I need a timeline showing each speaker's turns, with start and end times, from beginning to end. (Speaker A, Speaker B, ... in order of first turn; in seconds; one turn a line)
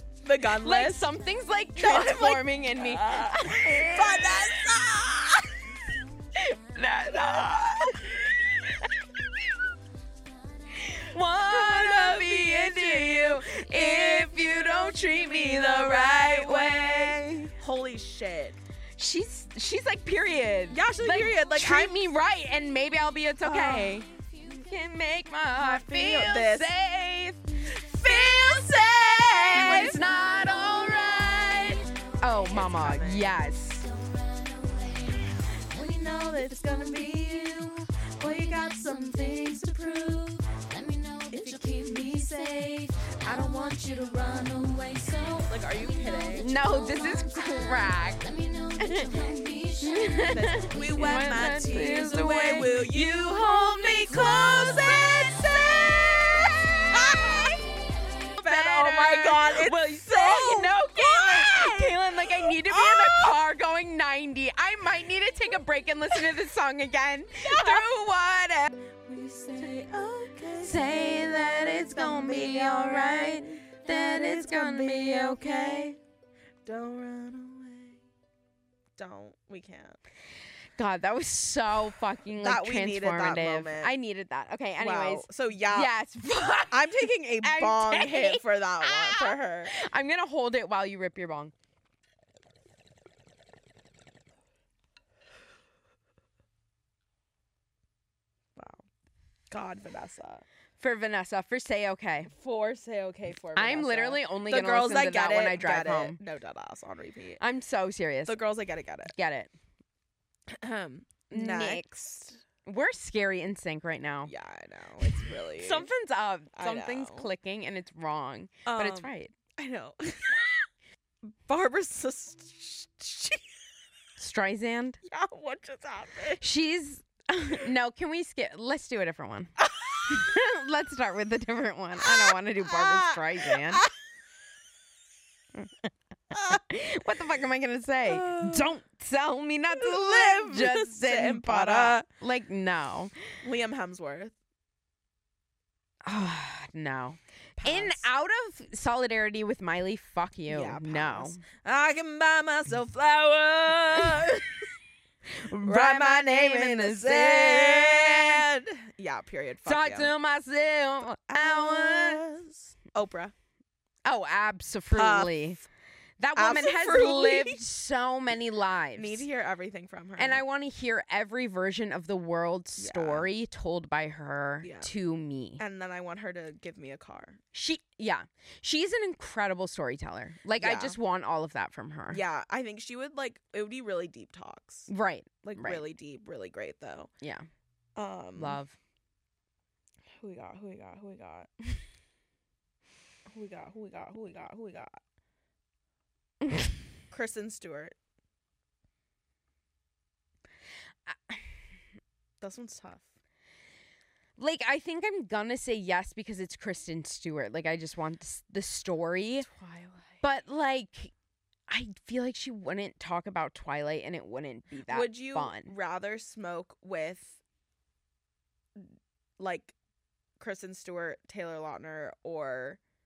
Speaker A: 0.2-1.1
Speaker B: 0.6-4.6
Speaker A: 1.8-5.6
Speaker B: 6.4-9.0
Speaker B: 10.7-17.5
Speaker A: 11.5-14.3
Speaker A: 15.4-18.6
Speaker B: 19.0-27.4
Speaker A: 20.7-22.0
Speaker A: 23.4-24.0
Speaker A: 25.6-26.7
Speaker A: 27.8-30.0
Speaker C: 28.1-28.8
Speaker B: 29.2-33.9
Speaker C: 29.6-32.6
Speaker A: 32.5-33.3
Speaker C: 33.8-51.9
Speaker A: 41.3-42.1
Speaker A: 45.5-46.5
Speaker B: 46.4-48.2
Speaker B: 48.8-49.1
Speaker B: 49.8-57.6
Speaker A: 50.3-55.4
Speaker C: 54.1-55.5
Speaker A: 56.9-57.6
Speaker B: 58.3-68.7
Speaker A: 58.4-63.4
Speaker A: 67.4-67.9
Speaker A: 69.0-76.0
Speaker B: 70.6-75.9
Speaker A: 76.7-78.0
Speaker A: 79.0-80.0
Speaker B: 80.8-91.5
Speaker A: 82.4-83.9
Speaker A: 84.8-85.9
Speaker A: 86.7-89.7
Speaker A: 98.6-98.8
Speaker A: 99.5-100.5
Speaker B: 100.8-102.3
Speaker A: 102.3-107.4
Speaker B: 103.6-106.2
Speaker B: 107.4-108.4
Speaker A: 108.3-109.1
Speaker B: 109.1-109.5
Speaker A: 110.5-112.4
Speaker B: 111.3-111.9
Speaker B: 112.6-114.3
Speaker A: 114.3-115.9
Speaker B: 115.1-119.3
Speaker A: 116.5-117.3
Speaker A: 118.7-120.5
Speaker A: 121.2-123.5
Speaker B: 124.2-125.0
Speaker A: 125.0-126.4
Speaker B: 126.4-129.5
Speaker A: 129.6-130.3
Speaker B: 130.1-133.9
Speaker A: 132.0-133.9
Speaker B: 135.6-143.1
Speaker A: 136.3-136.6
Speaker A: 138.1-138.7
Speaker A: 139.7-142.1
Speaker A: 143.4-144.3
Speaker B: 146.1-151.4
Speaker A: 147.6-148.1
Speaker A: 150.5-154.7
Speaker B: 155.3-158.4
Speaker A: 155.6-160.1
Speaker B: 159.7-162.2
Speaker A: 161.2-163.3
Speaker B: 164.1-165.6
Speaker A: 164.9-165.5
Speaker B: 166.2-169.3
Speaker A: 166.4-167.6
Speaker A: 168.9-170.4
Speaker B: 170.2-175.6
Speaker A: 172.8-173.3
Speaker A: 174.6-174.9
Speaker A: 175.6-177.4
Speaker B: 177.5-182.2
Speaker A: 180.6-181.0
Speaker A: 182.1-184.9
Speaker B: 184.9-185.8
Speaker A: 185.4-187.1
Speaker B: 187.2-187.5
Speaker A: 188.0-188.6
Speaker B: 188.4-188.8
Speaker A: 190.2-191.5
Speaker A: 193.3-195.0
Speaker A: 197.1-197.9
Speaker B: 201.1-201.4
Speaker A: 202.4-203.1
Speaker B: 204.4-209.5
Speaker A: 209.4-210.2
Speaker B: 210.2-211.1
Speaker B: 211.7-215.7
Speaker A: 214.9-217.4
Speaker A: 219.4-219.7
Speaker A: 220.4-222.8